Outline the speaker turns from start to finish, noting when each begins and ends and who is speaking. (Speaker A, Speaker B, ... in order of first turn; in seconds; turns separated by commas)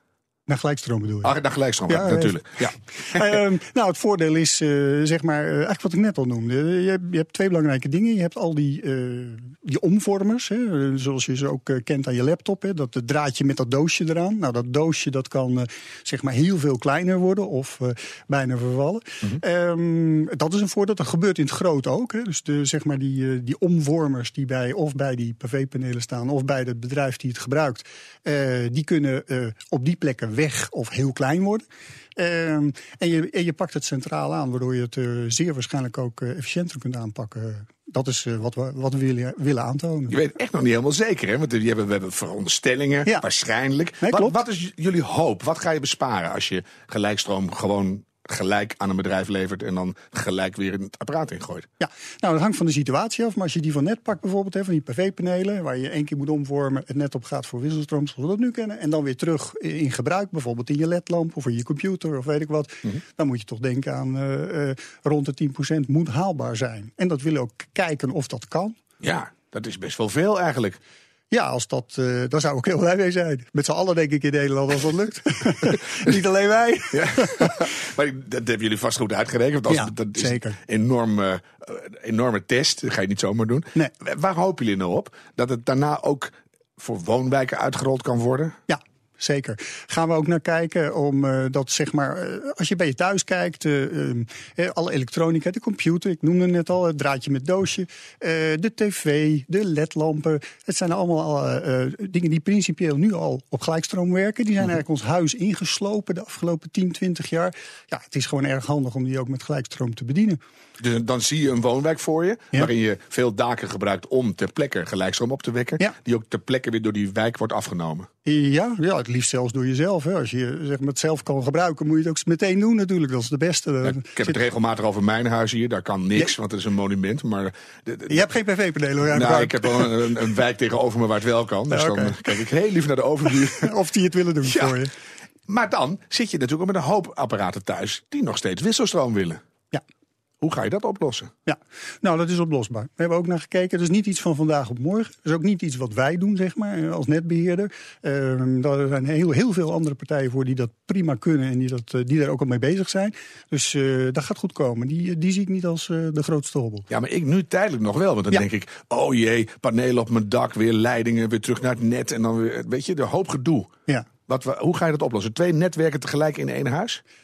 Speaker A: 0.5-1.4, Speaker B: 1.2-3.4, Speaker A: 1.9-2.4, Speaker A: 3.0-31.6, Speaker A: 32.2-40.1, Speaker B: 40.1-51.7, Speaker A: 44.0-44.4, Speaker A: 51.8-68.8, Speaker B: 69.0-70.8, Speaker A: 71.3-77.7, Speaker B: 76.9-88.6, Speaker A: 79.7-80.6, Speaker A: 88.7-110.4, Speaker B: 110.8-118.1, Speaker A: 118.2-124.4, Speaker B: 123.8-128.3, Speaker A: 128.1-129.9, Speaker B: 129.1-133.7, Speaker A: 131.7-132.3, Speaker A: 133.3-134.9, Speaker B: 134.5-134.8, Speaker B: 135.5-139.4, Speaker B: 140.4-141.3, Speaker A: 141.5-156.9, Speaker B: 156.9-163.7, Speaker B: 164.3-167.0